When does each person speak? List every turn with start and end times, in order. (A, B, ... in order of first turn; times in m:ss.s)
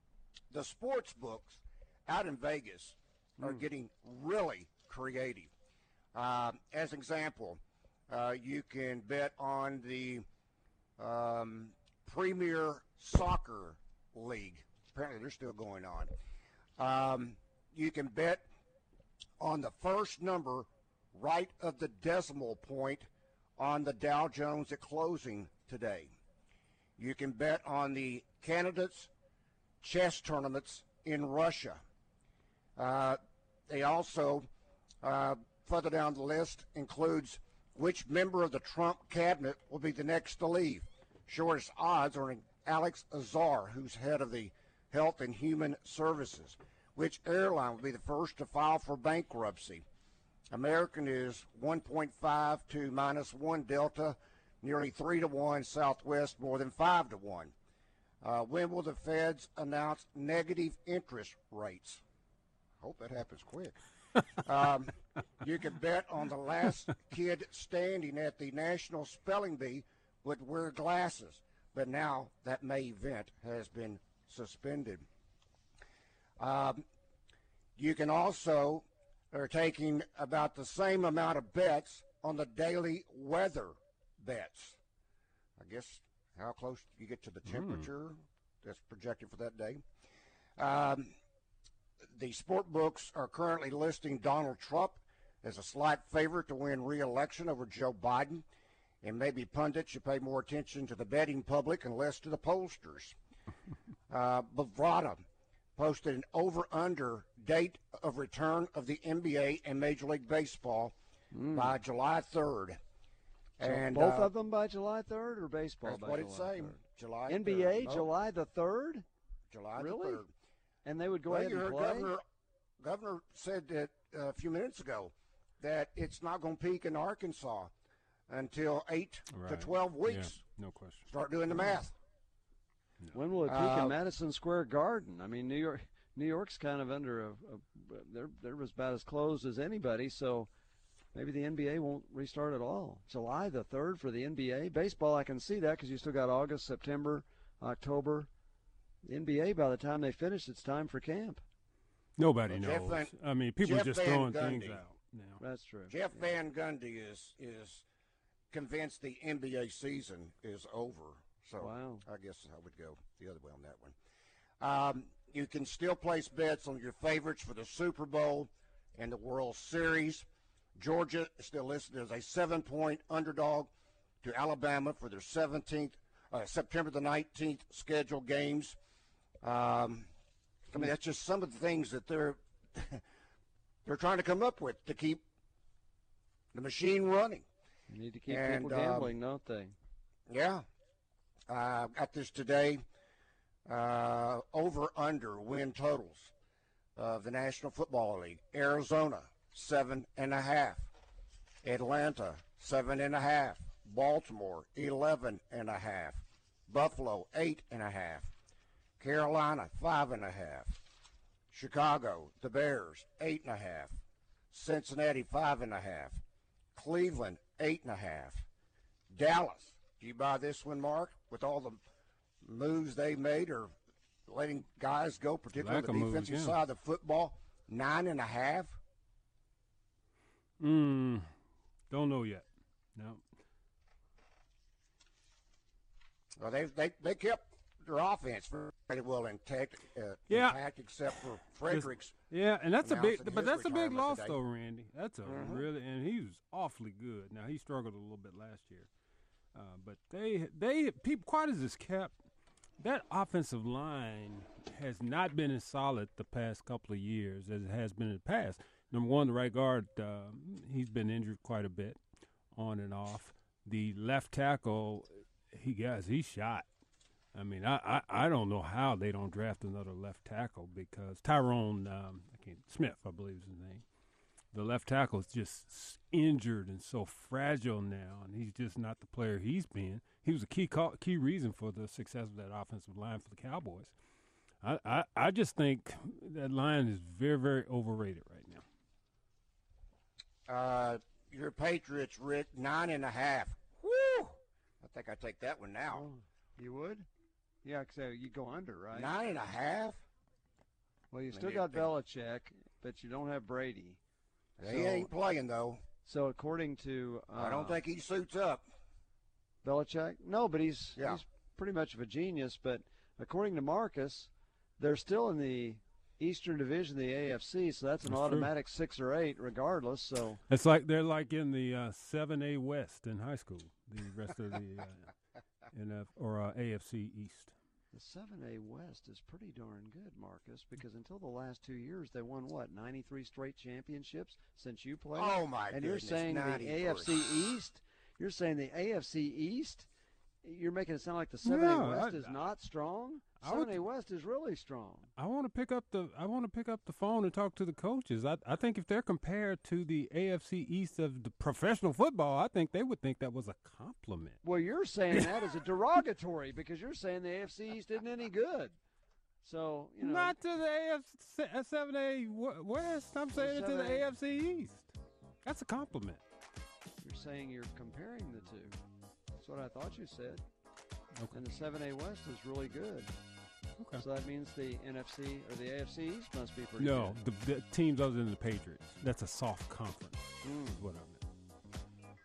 0:00.5-0:05.5 A
0:06.1-0:10.3 A
0:11.0-0:16.1 A
0:16.8-0:18.5 A
0:19.4-0:26.1 A
0:27.0-0:29.1 A
0:29.8-0:31.8 A
0:32.8-0:34.5 A
0:35.0-0:49.8 A
0:50.5-0:57.5 A
0:58.2-1:02.0 A
1:02.8-1:03.8 A
1:04.3-1:15.1 A
1:16.4-1:16.8 A
1:17.8-1:24.8 A
1:25.6-1:29.8 A
1:27.5-1:27.9 B
1:30.6-1:31.1 A
1:32.1-1:38.4 A
1:39.0-1:43.2 A
1:44.1-1:45.2 A
1:45.8-1:50.9 A
1:51.3-1:51.7 C
1:51.5-1:52.8 A
1:53.6-1:54.3 A
1:53.6-1:59.1 C
1:55.8-1:58.1 A
1:59.5-2:00.3 A
1:59.8-2:00.2 C
2:00.8-2:02.1 C
2:01.3-2:02.2 A
2:02.8-2:07.7 A
2:08.3-2:10.4 A
2:09.3-2:11.1 B
2:11.0-2:12.0 A
2:13.1-2:20.5 C
2:13.5-2:14.0 A
2:21.2-2:28.3 C
2:29.0-2:31.4 C
2:32.2-2:35.4 B
2:32.5-2:34.8 A
2:35.4-2:36.2 C
2:35.9-2:37.8 A
2:38.5-2:44.0 A
2:41.6-2:42.0 C
2:44.6-2:53.7 A
2:54.2-2:58.8 A
2:59.4-3:00.1 A
3:00.7-3:03.0 A
3:03.8-3:05.2 A
3:06.5-3:07.4 A
3:07.9-3:09.8 C
3:08.3-3:09.1 A
3:10.3-3:10.6 A
3:11.5-3:12.8 A
3:13.7-3:16.3 A
3:17.0-3:20.9 A
3:21.6-3:28.3 A
3:29.0-3:30.8 A
3:31.5-3:34.0 A
3:34.5-3:36.2 A
3:36.8-3:38.5 A
3:39.1-3:41.8 A
3:42.4-3:43.7 A
3:44.3-3:48.8 A
3:45.6-3:46.6 B
3:50.6-3:51.3 B
3:51.9-3:53.2 B
3:56.4-4:02.2 A
4:00.3-4:00.6 B
4:01.7-4:08.9 B
4:02.8-4:04.4 A
4:05.3-4:05.7 A
4:09.5-4:12.2 B
4:12.8-4:22.0 B
4:22.5-4:26.7 B
4:27.3-4:33.8 B
4:34.5-4:43.9 B
4:44.6-4:48.6 B
4:50.5-4:56.1 A
4:55.9-4:57.1 C
4:57.6-4:59.1 C
4:58.9-5:00.0 A
5:01.1-5:04.0 C
5:01.3-5:01.9 A
5:04.6-5:05.8 A
5:04.6-5:05.1 C
5:06.0-5:07.8 C
5:07.4-5:08.6 A
5:09.6-5:20.4 C
5:11.0-5:11.2 A
5:18.0-5:18.5 B
5:20.5-5:25.1 B
5:25.7-5:27.5 B
5:27.9-5:39.9 C
5:35.2-5:37.2 A
5:40.4-5:45.1 C
5:41.4-5:42.3 B
5:43.4-5:43.8 B
5:45.2-5:54.4 B
5:54.4-5:58.8 C
5:59.4-6:00.4 C
6:00.0-6:04.9 B
6:03.3-6:04.1 C
6:05.4-6:06.2 B
6:07.0-6:08.8 C
6:09.4-6:10.4 C
6:11.3-6:13.1 C
6:14.0-6:17.2 C
6:16.8-6:21.2 B
6:20.4-6:20.8 C